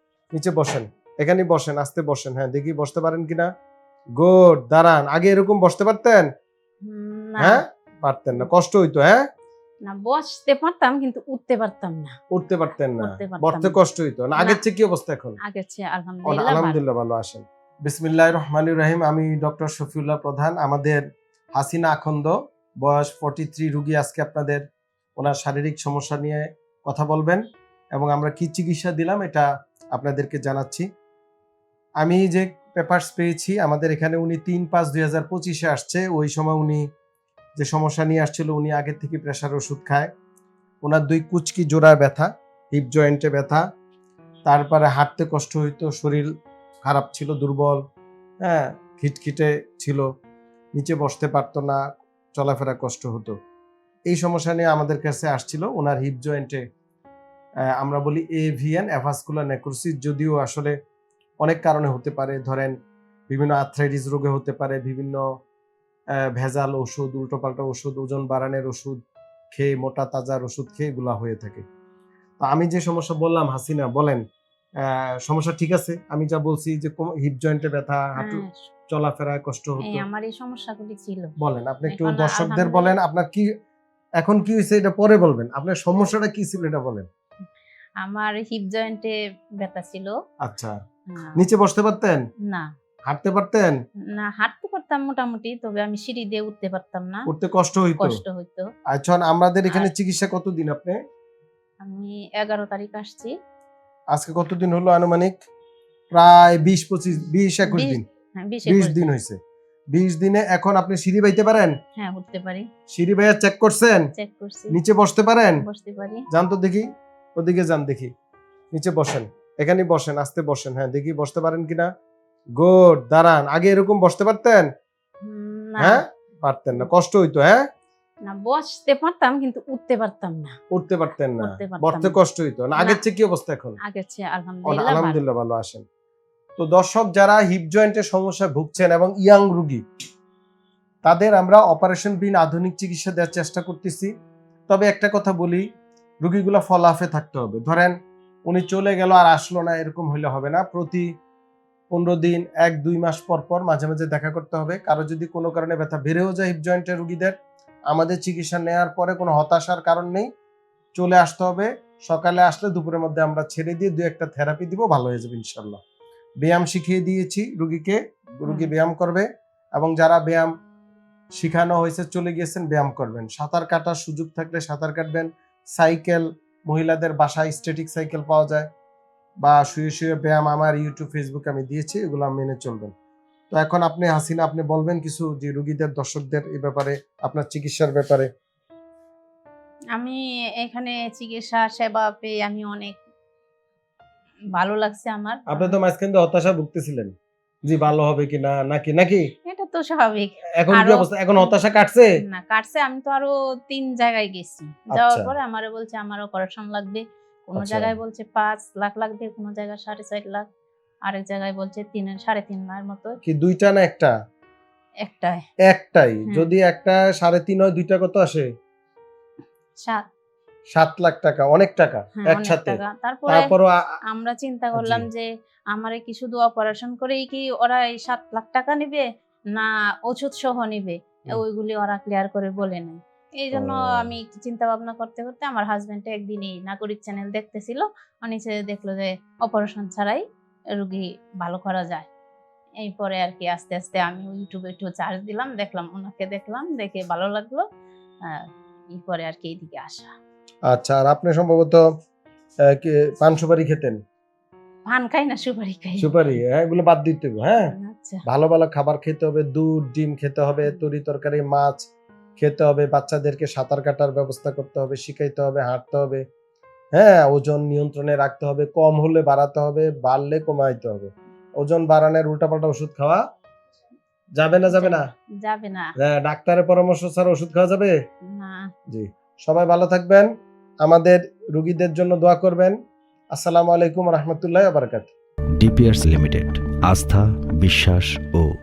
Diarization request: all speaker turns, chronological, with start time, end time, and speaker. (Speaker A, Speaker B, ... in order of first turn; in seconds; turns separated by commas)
Speaker A: 0.3-3.5, Speaker A: 4.2-6.3, Speaker B: 6.8-7.6, Speaker A: 7.4-9.2, Speaker B: 9.8-12.2, Speaker A: 12.3-15.4, Speaker B: 13.0-13.8, Speaker B: 14.3-14.6, Speaker B: 15.4-16.8, Speaker A: 16.2-21.0, Speaker A: 21.6-24.6, Speaker A: 25.2-27.4, Speaker A: 27.9-30.9, Speaker A: 32.0-36.9, Speaker A: 37.6-40.1, Speaker A: 40.8-43.6, Speaker A: 44.5-46.3, Speaker A: 46.8-47.8, Speaker A: 48.4-50.0, Speaker A: 50.7-51.8, Speaker A: 52.3-53.3, Speaker A: 54.1-56.6, Speaker A: 57.8-60.8, Speaker A: 61.4-62.7, Speaker A: 63.3-65.2, Speaker A: 66.3-69.0, Speaker A: 69.5-71.6, Speaker A: 72.4-74.2, Speaker A: 74.8-80.0, Speaker B: 78.2-78.6, Speaker B: 79.8-81.3, Speaker A: 81.4-83.5, Speaker B: 81.9-82.9, Speaker A: 84.2-87.1, Speaker B: 88.0-90.1, Speaker A: 90.4-90.7, Speaker B: 91.1-91.4, Speaker A: 91.3-92.2, Speaker A: 93.1-93.8, Speaker B: 94.1-97.2, Speaker A: 97.3-98.2, Speaker B: 98.0-98.7, Speaker A: 98.9-101.0, Speaker B: 101.8-103.3, Speaker A: 104.1-105.3, Speaker A: 106.1-108.0, Speaker B: 107.7-109.0, Speaker A: 108.6-109.3, Speaker A: 109.9-111.7, Speaker B: 112.0-112.7, Speaker A: 112.9-114.0, Speaker B: 114.2-114.7, Speaker A: 114.7-115.6, Speaker B: 115.6-116.2, Speaker A: 116.3-118.1, Speaker A: 118.7-121.9, Speaker A: 122.6-124.7, Speaker B: 125.2-126.0, Speaker A: 125.8-127.6, Speaker B: 128.2-130.6, Speaker A: 130.7-133.8, Speaker B: 131.4-132.2, Speaker B: 132.7-133.0, Speaker B: 133.8-135.2, Speaker A: 134.7-135.8, Speaker A: 136.6-139.8, Speaker A: 141.0-144.1, Speaker A: 144.7-145.6, Speaker A: 146.2-151.1, Speaker A: 151.9-157.3, Speaker A: 157.9-160.3, Speaker A: 160.9-165.8, Speaker A: 166.4-170.5, Speaker B: 168.4-168.7, Speaker A: 171.3-178.7, Speaker A: 179.4-182.9, Speaker A: 183.5-188.3, Speaker B: 189.9-193.0, Speaker B: 194.5-195.8, Speaker A: 195.5-197.1, Speaker A: 197.6-199.2, Speaker B: 199.4-201.6, Speaker A: 200.6-202.1, Speaker B: 202.2-210.5, Speaker A: 204.9-205.3, Speaker A: 207.6-207.9, Speaker B: 211.1-213.2, Speaker A: 213.2-214.1, Speaker B: 215.0-215.4, Speaker A: 215.7-218.5, Speaker B: 219.8-220.0, Speaker A: 220.8-223.8, Speaker B: 222.2-223.5, Speaker B: 224.1-240.2, Speaker A: 224.7-225.0, Speaker A: 233.5-234.1, Speaker B: 240.7-242.1, Speaker B: 242.8-247.6, Speaker B: 248.2-250.1, Speaker A: 250.7-251.8, Speaker A: 252.7-254.0, Speaker B: 254.9-256.4, Speaker A: 256.0-257.7, Speaker B: 257.7-258.2, Speaker A: 258.2-261.8, Speaker A: 262.4-266.2, Speaker A: 266.9-273.2, Speaker A: 274.4-275.1, Speaker B: 274.7-275.9, Speaker A: 276.0-277.9, Speaker B: 278.3-278.7, Speaker A: 278.9-280.3, Speaker A: 280.8-282.8, Speaker A: 283.3-285.1, Speaker C: 285.6-288.5